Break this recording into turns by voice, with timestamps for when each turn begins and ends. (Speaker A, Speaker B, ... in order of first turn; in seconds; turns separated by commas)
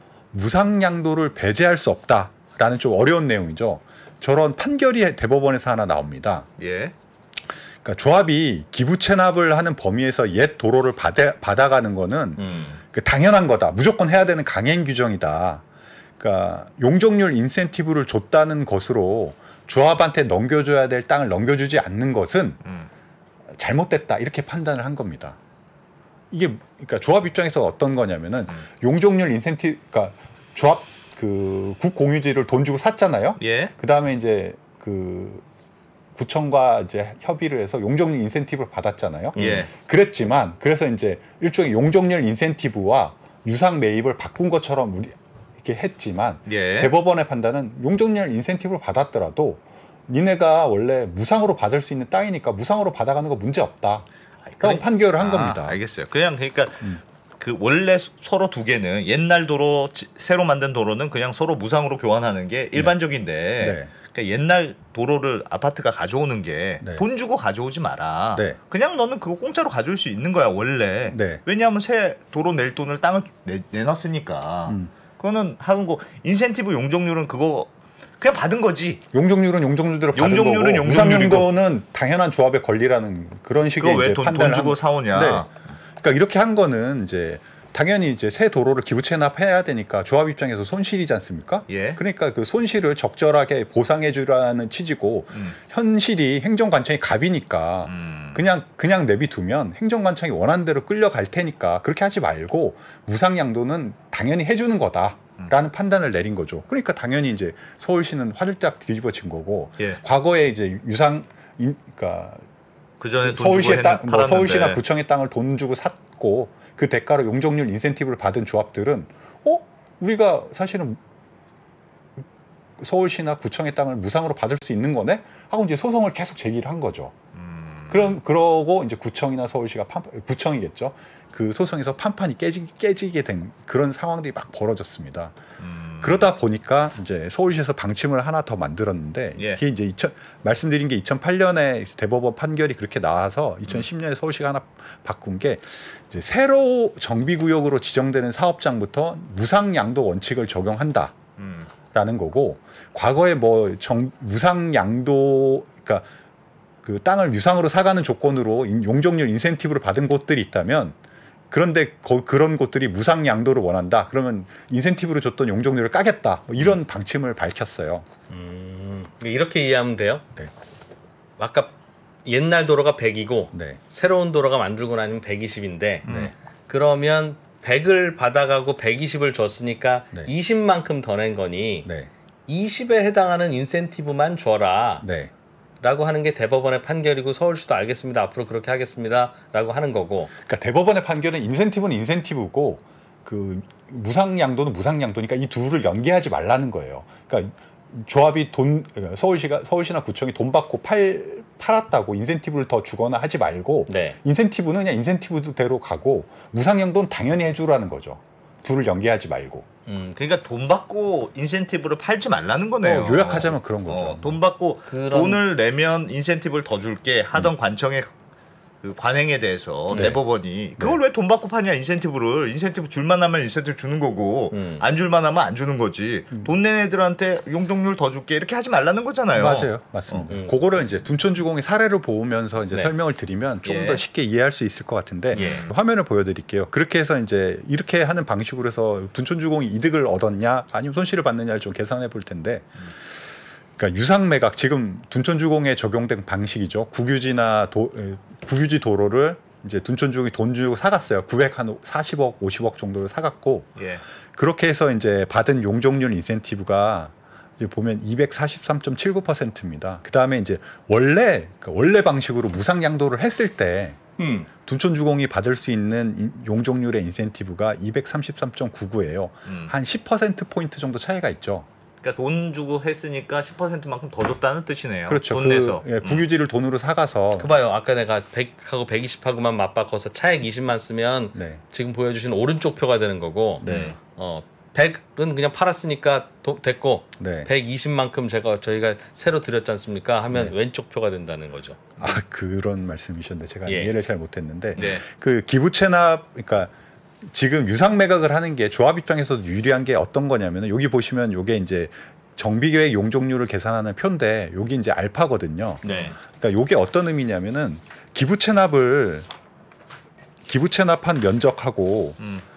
Speaker A: 0.3-6.5, Speaker B: 6.6-6.9, Speaker A: 7.8-15.6, Speaker C: 12.4-12.7, Speaker B: 12.5-12.8, Speaker A: 16.2-22.6, Speaker A: 23.6-25.4, Speaker A: 26.3-35.4, Speaker B: 33.4-33.7, Speaker A: 36.1-54.1, Speaker B: 39.4-39.7, Speaker B: 46.5-46.9, Speaker B: 54.6-79.0, Speaker A: 54.6-55.8, Speaker A: 63.6-63.9, Speaker A: 71.1-71.4, Speaker A: 79.1-112.4, Speaker B: 80.1-81.5, Speaker B: 83.8-85.5, Speaker B: 91.7-92.0, Speaker B: 97.9-98.5, Speaker B: 113.0-114.8, Speaker A: 113.2-121.0, Speaker A: 122.8-127.2, Speaker B: 127.3-128.2, Speaker A: 127.9-135.4, Speaker B: 135.6-136.3, Speaker A: 136.0-151.2, Speaker B: 139.4-139.6, Speaker B: 151.4-151.7, Speaker A: 151.9-156.1, Speaker A: 156.8-161.0, Speaker A: 161.5-168.1, Speaker C: 168.3-170.2, Speaker C: 171.4-171.7, Speaker C: 172.2-176.1, Speaker A: 173.5-173.8, Speaker B: 176.1-176.3, Speaker A: 176.1-176.3, Speaker C: 176.7-181.9, Speaker C: 182.5-185.1, Speaker A: 185.0-185.3, Speaker C: 185.8-190.3, Speaker A: 190.4-209.7, Speaker C: 203.9-204.2, Speaker C: 209.9-210.2, Speaker B: 210.2-218.1, Speaker A: 212.8-214.4, Speaker C: 214.9-215.4, Speaker B: 218.8-230.3, Speaker A: 219.9-220.2, Speaker C: 224.5-224.8, Speaker A: 229.3-243.2, Speaker C: 230.3-230.6, Speaker B: 233.7-234.0, Speaker B: 235.3-235.7, Speaker C: 235.3-235.7, Speaker A: 243.8-253.8, Speaker B: 253.8-254.0, Speaker A: 254.3-264.0, Speaker C: 264.2-264.5, Speaker A: 264.6-271.7, Speaker B: 269.5-269.7, Speaker B: 272.0-276.2, Speaker A: 275.1-277.5, Speaker C: 277.4-292.2, Speaker A: 281.4-281.6, Speaker A: 283.6-283.9, Speaker B: 283.6-283.9, Speaker A: 287.2-287.5, Speaker A: 292.0-296.7, Speaker C: 293.7-293.9, Speaker B: 294.8-295.0, Speaker A: 297.2-309.3, Speaker C: 305.8-306.2, Speaker A: 310.5-312.2